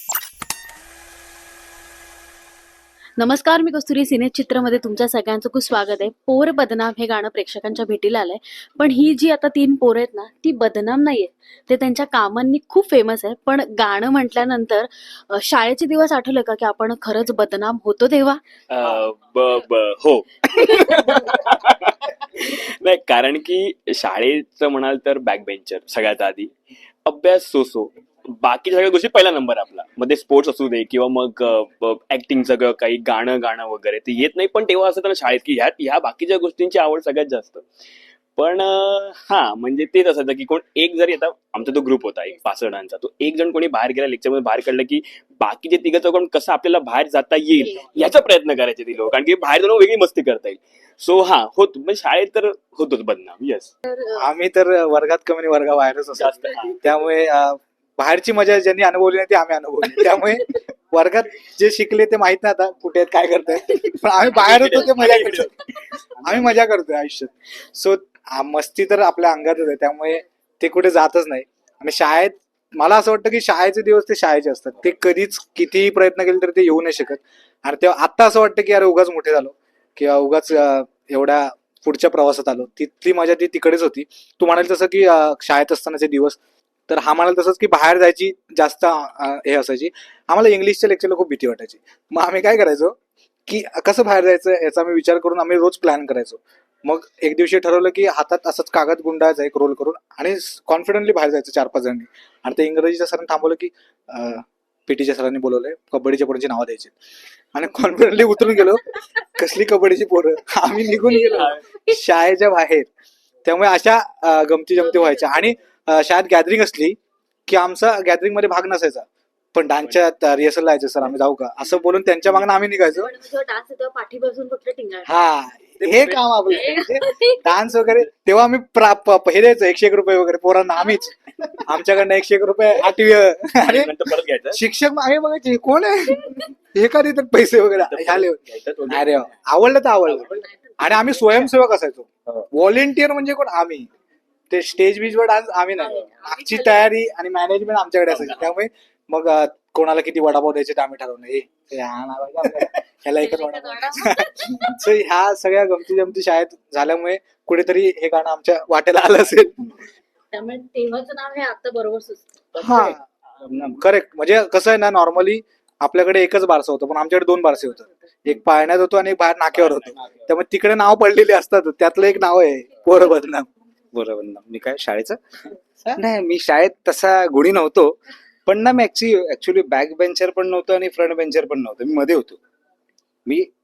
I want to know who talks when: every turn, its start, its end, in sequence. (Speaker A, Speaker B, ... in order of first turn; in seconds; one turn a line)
Speaker A: 3.2-18.4
Speaker B: 18.7-26.5
Speaker A: 20.5-21.0
Speaker B: 27.1-37.6
Speaker B: 38.4-53.7
Speaker A: 53.9-54.1
Speaker C: 54.1-65.6
Speaker B: 56.2-56.8
Speaker B: 64.2-66.5
Speaker C: 66.2-93.0
Speaker C: 93.5-106.9
Speaker C: 107.5-112.9
Speaker B: 111.3-111.6
Speaker C: 113.4-123.1
Speaker A: 114.8-115.3
Speaker A: 122.8-125.1
Speaker C: 125.0-133.9
Speaker B: 125.8-126.2
Speaker A: 126.4-127.5
Speaker B: 133.6-134.6
Speaker C: 134.5-143.9
Speaker B: 137.8-139.3
Speaker C: 144.5-159.8
Speaker A: 145.8-146.8
Speaker B: 148.1-148.4
Speaker A: 153.2-154.7
Speaker A: 160.3-162.9
Speaker C: 162.6-163.0
Speaker D: 163.4-163.8
Speaker C: 163.6-173.5
Speaker B: 169.5-170.1
Speaker D: 173.9-175.2
Speaker D: 175.9-182.4